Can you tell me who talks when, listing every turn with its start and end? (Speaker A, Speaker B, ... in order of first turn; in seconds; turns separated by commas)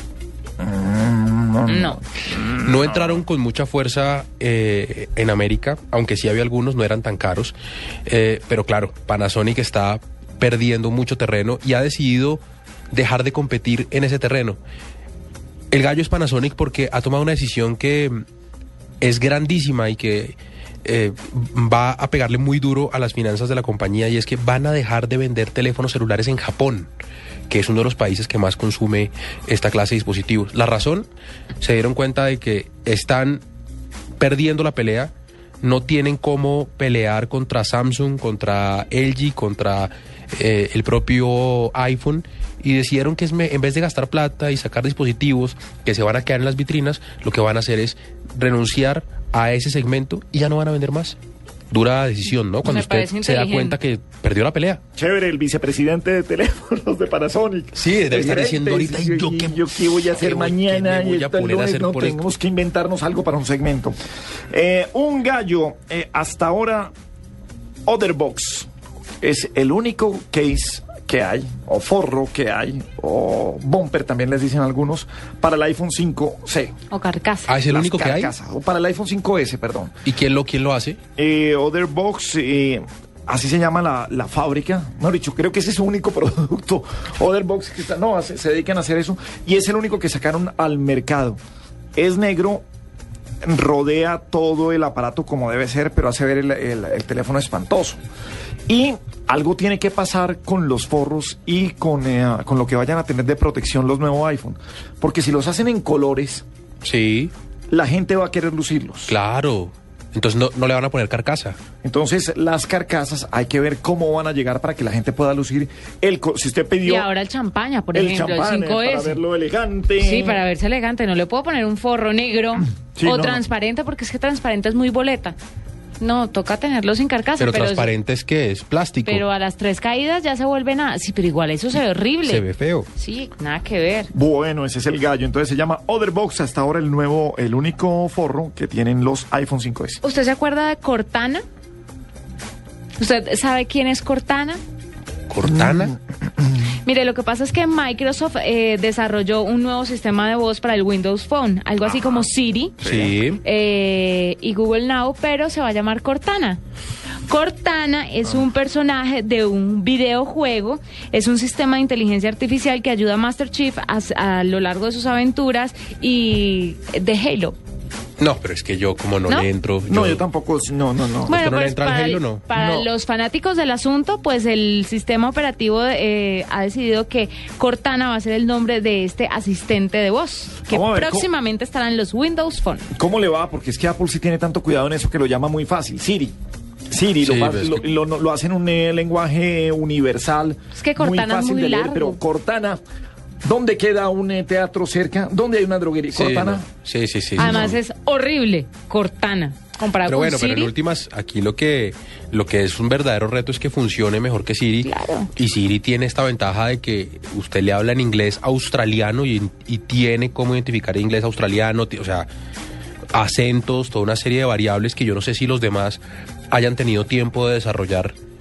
Speaker A: 0.6-3.2, Speaker B: 1.7-2.0, Speaker C: 2.6-7.5, Speaker C: 8.1-14.6, Speaker C: 15.7-18.2, Speaker C: 19.0-26.9, Speaker C: 27.5-31.1, Speaker C: 31.6-33.4, Speaker C: 34.2-51.2, Speaker C: 51.7-54.8, Speaker B: 52.6-53.8, Speaker A: 55.0-64.0, Speaker C: 57.7-62.3, Speaker A: 64.5-66.9, Speaker A: 67.9-68.7, Speaker A: 69.2-76.7, Speaker B: 76.9-77.5, Speaker C: 77.5-78.3, Speaker A: 77.7-80.0, Speaker C: 80.0-81.0, Speaker A: 81.2-91.4, Speaker A: 92.0-92.6, Speaker A: 93.4-98.0, Speaker A: 98.7-106.4, Speaker C: 106.8-107.3, Speaker A: 107.7-109.2, Speaker C: 109.1-111.6, Speaker A: 111.8-117.1, Speaker B: 116.8-119.2, Speaker A: 117.9-120.4, Speaker B: 120.0-125.3, Speaker A: 123.0-123.4, Speaker B: 126.0-127.9, Speaker C: 127.4-129.2, Speaker B: 129.0-132.4, Speaker C: 132.2-132.9, Speaker B: 132.9-134.1, Speaker A: 134.1-140.0, Speaker B: 140.0-141.4, Speaker B: 143.0-144.6, Speaker C: 145.3-145.9, Speaker A: 145.5-145.8, Speaker B: 146.8-152.8, Speaker A: 151.9-152.2, Speaker A: 152.8-153.1, Speaker C: 152.8-153.4, Speaker B: 153.4-156.6, Speaker B: 157.3-167.6, Speaker C: 168.2-170.2, Speaker A: 169.9-171.4, Speaker B: 171.3-182.9, Speaker C: 171.3-172.4, Speaker A: 172.5-172.9, Speaker A: 180.7-181.3, Speaker A: 182.9-186.3, Speaker A: 186.9-192.8, Speaker C: 187.2-187.9, Speaker B: 190.7-192.2, Speaker A: 193.4-196.7, Speaker C: 196.1-197.8, Speaker B: 197.4-200.7, Speaker A: 197.4-197.7, Speaker C: 200.0-212.3, Speaker B: 204.8-205.3, Speaker C: 213.1-218.2